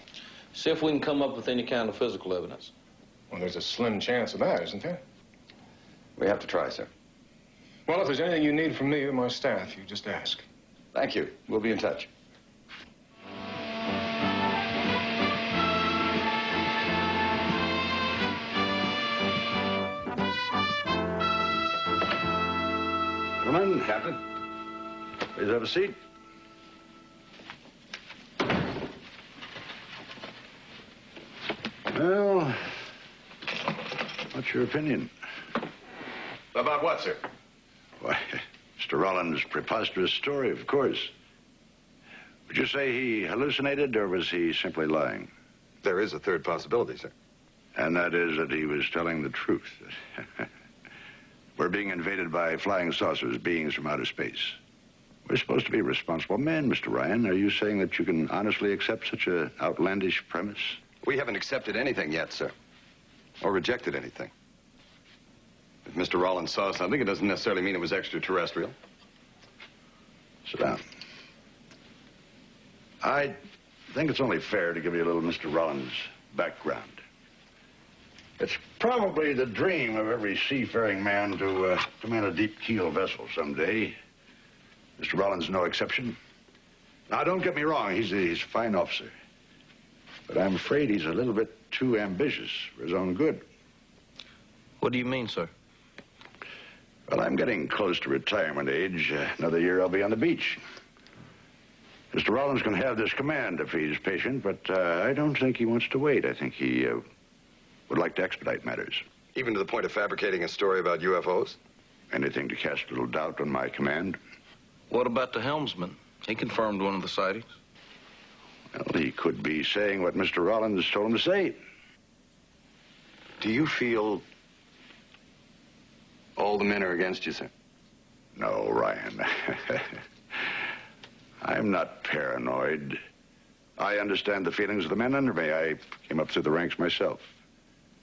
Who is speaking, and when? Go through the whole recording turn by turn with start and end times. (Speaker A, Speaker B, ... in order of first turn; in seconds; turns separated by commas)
Speaker A: 0.5-2.7, Speaker B: 3.3-5.0, Speaker C: 6.2-6.9, Speaker B: 7.9-10.4, Speaker C: 10.9-12.1, Speaker C: 23.4-24.1, Speaker D: 25.4-26.0, Speaker D: 31.9-32.7, Speaker D: 34.3-35.1, Speaker C: 36.5-37.2, Speaker D: 38.0-41.1, Speaker D: 42.5-45.3, Speaker C: 45.8-47.1, Speaker D: 47.8-50.5, Speaker D: 51.6-54.6, Speaker D: 55.3-60.8, Speaker C: 61.0-62.5, Speaker C: 63.4-64.3, Speaker C: 65.9-68.7, Speaker D: 70.5-70.8, Speaker D: 73.0-73.4, Speaker D: 73.9-77.0, Speaker D: 78.4-84.0, Speaker D: 85.0-86.2, Speaker D: 87.1-89.1, Speaker D: 90.3-93.5, Speaker A: 94.8-95.5, Speaker D: 97.1-100.6, Speaker D: 102.1-107.0, Speaker D: 107.9-109.0, Speaker C: 109.3-111.6, Speaker D: 112.1-114.2, Speaker A: 114.9-117.5, Speaker D: 118.7-121.6, Speaker C: 123.4-124.2, Speaker C: 126.4-127.5, Speaker D: 128.4-130.5, Speaker D: 131.4-133.0, Speaker D: 133.8-137.3